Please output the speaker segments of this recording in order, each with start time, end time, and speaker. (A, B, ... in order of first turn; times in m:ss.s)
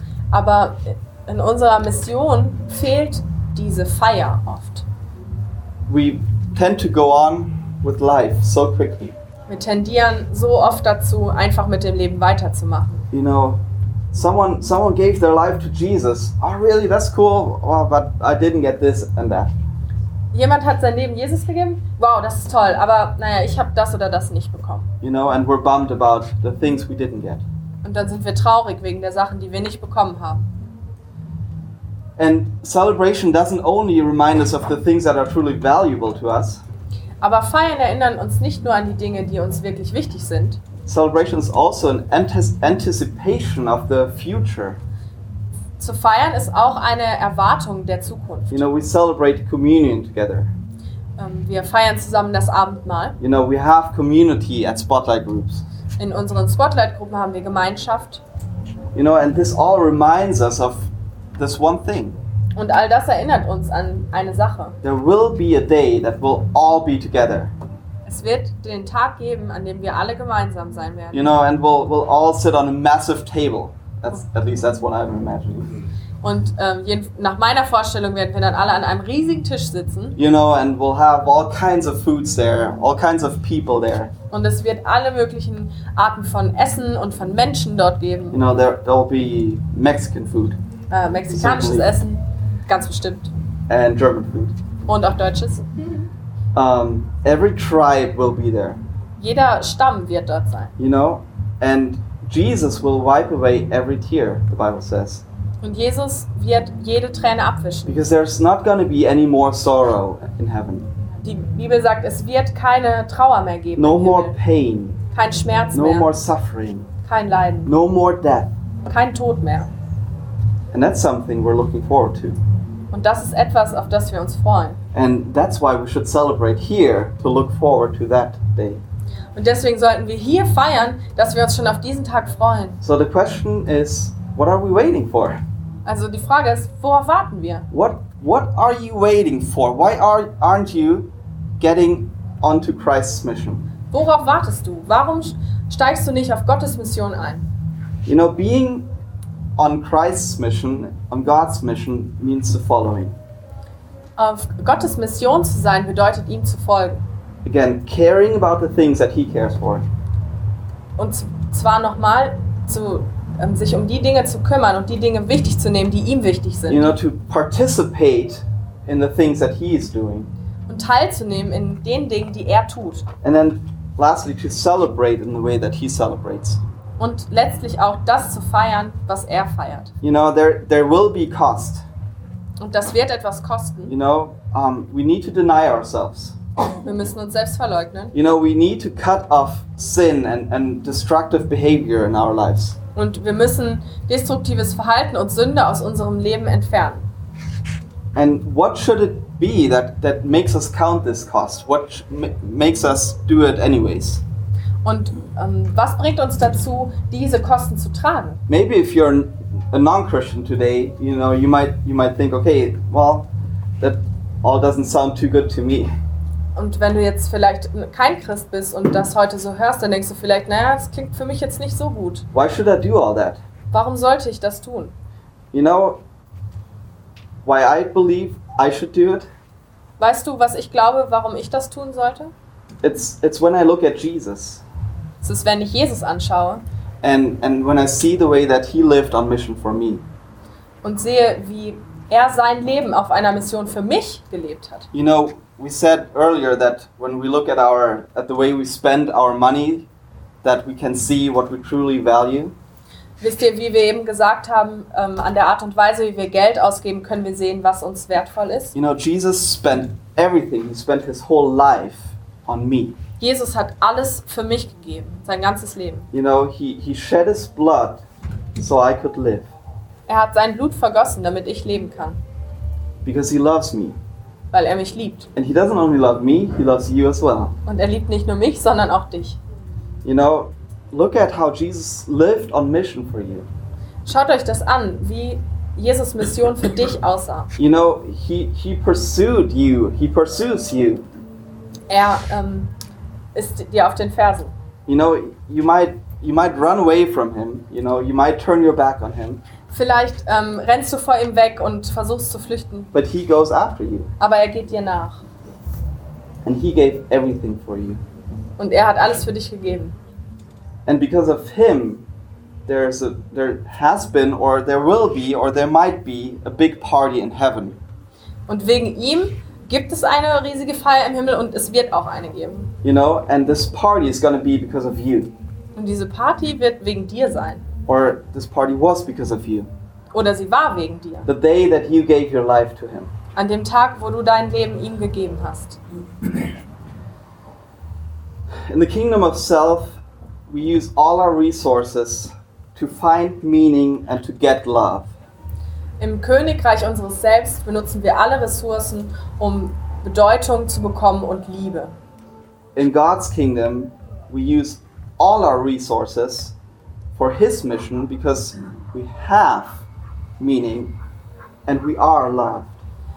0:00.3-0:04.8 A
0:05.9-0:09.2 B
0:09.5-0:13.1 A
0:13.1-0:13.6 B
0:14.1-0:19.5 B
0:20.3-0:24.9 A
0:25.0-0:27.4 B
0:27.8-0:30.4 A
0:32.2-0:36.6 B
0:37.2-0:40.6 A
0:40.9-0:44.8 B
0:45.8-0:48.7 A
0:48.5-0:50.5 B
0:51.2-0:53.2 A
0:53.2-0:55.6 B
0:56.0-0:58.2 A
0:58.9-1:02.2 B
1:02.6-1:04.8 A
1:04.8-1:07.5 B
1:08.1-1:11.3 A
1:11.1-1:15.8 B
1:16.2-1:20.2 A
1:20.2-1:24.1 B
1:24.3-1:28.4 A
1:28.3-1:30.6 B
1:30.9-1:33.3 A
1:31.3-1:31.9 B
1:33.7-1:34.6 B
1:34.9-1:35.6 A
1:36.5-1:38.8 B
1:39.2-1:40.7 A
1:40.8-1:45.2 B
1:45.6-1:48.0 A
1:47.9-1:50.9 B
1:51.2-1:54.4 A
1:53.8-1:55.0 B
1:55.1-1:56.1 A
1:55.7-1:56.9 B
1:57.0-1:57.7 A
1:57.7-1:58.5 B
1:58.8-1:59.7 A
2:00.7-2:02.4 B
2:02.9-2:04.8 A
2:04.9-2:08.8 B
2:09.4-2:12.8 A
2:12.8-2:15.4 B
2:15.8-2:17.7 A
2:17.7-2:23.6 B
2:23.9-2:27.5 A
2:28.1-2:28.9 B
2:29.6-2:33.2 B
2:34.2-2:37.0 A
2:37.4-2:39.9 B
2:41.0-2:47.0 A
2:46.7-2:50.3 B
2:50.7-2:53.1 A
2:53.2-2:56.6 B
2:57.0-2:59.9 A
3:00.0-3:01.8 B
3:02.6-3:04.0 A
3:03.9-3:06.4 B
3:06.8-3:08.1 A
3:08.1-3:12.8 B
3:13.0-3:17.1 A
3:18.1-3:24.2 B
3:24.8-3:28.4 A
3:28.5-3:35.9 B
3:36.6-3:42.3 A
3:42.3-3:43.4 B
3:43.7-3:44.9 A
3:45.5-3:46.0 B
3:47.4-3:49.3 B
3:50.0-3:52.3 A
3:52.8-3:54.6 B
3:55.2-3:56.6 A
3:57.0-4:00.0 B
4:00.8-4:04.9 A
4:04.9-4:09.9 B
4:10.4-4:12.6 B
4:13.2-4:18.7 A
4:18.7-4:23.0 B
4:23.2-4:26.1 A
4:26.1-4:28.0 B
4:28.6-4:29.5 B
4:30.1-4:32.2 A
4:33.0-4:34.0 B
4:34.5-4:35.3 A
4:35.4-4:37.6 B
4:37.7-4:39.4 A
4:40.0-4:43.5 B
4:44.1-4:47.5 A
4:47.6-4:51.1 B
4:51.9-4:52.7 A
4:53.4-4:54.5 A
4:54.9-4:59.4 B
4:59.7-5:02.9 A
5:02.9-5:04.1 B
5:04.2-5:05.2 A
5:06.4-5:08.0 B
5:08.6-5:10.0 A
5:10.9-5:12.1 B
5:12.7-5:17.8 B
5:18.5-5:22.7 A
5:22.8-5:25.3 B
5:25.8-5:27.6 A
5:27.9-5:29.7 B
5:30.1-5:31.3 A
5:31.3-5:33.1 B
5:33.4-5:35.8 A
5:38.7-5:45.1 B
5:46.0-5:51.9 A
5:52.8-5:56.6 B
5:57.2-5:59.8 B
6:00.4-6:00.9 B
6:01.7-6:02.8 B